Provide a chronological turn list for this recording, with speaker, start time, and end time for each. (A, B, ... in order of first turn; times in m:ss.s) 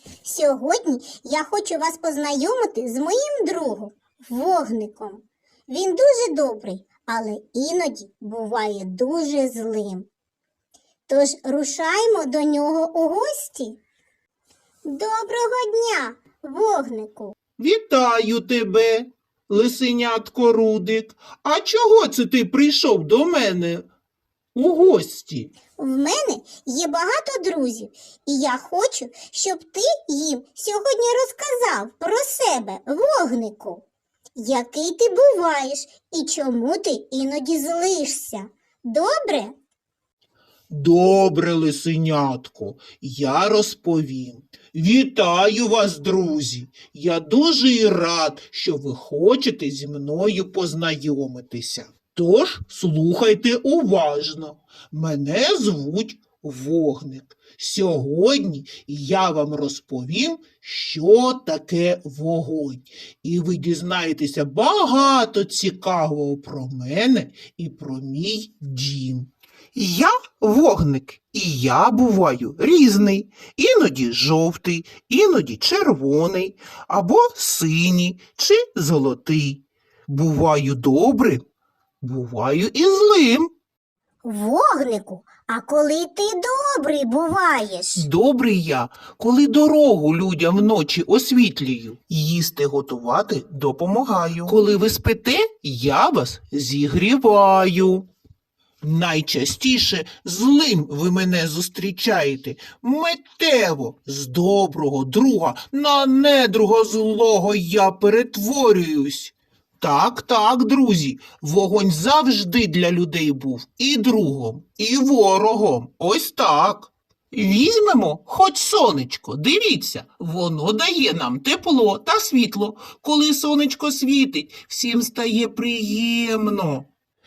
0:00.2-0:10.1 A
0:11.1-0:13.8 A
0:14.8-0:17.3 A
0:17.6-0:23.8 B
0:24.5-0:25.5 B
0:25.8-0:33.8 A
0:34.4-0:39.5 A
0:40.7-1:21.4 B
1:22.0-1:23.5 B
1:24.2-1:28.0 A
1:28.0-1:38.1 B
1:38.8-2:06.9 B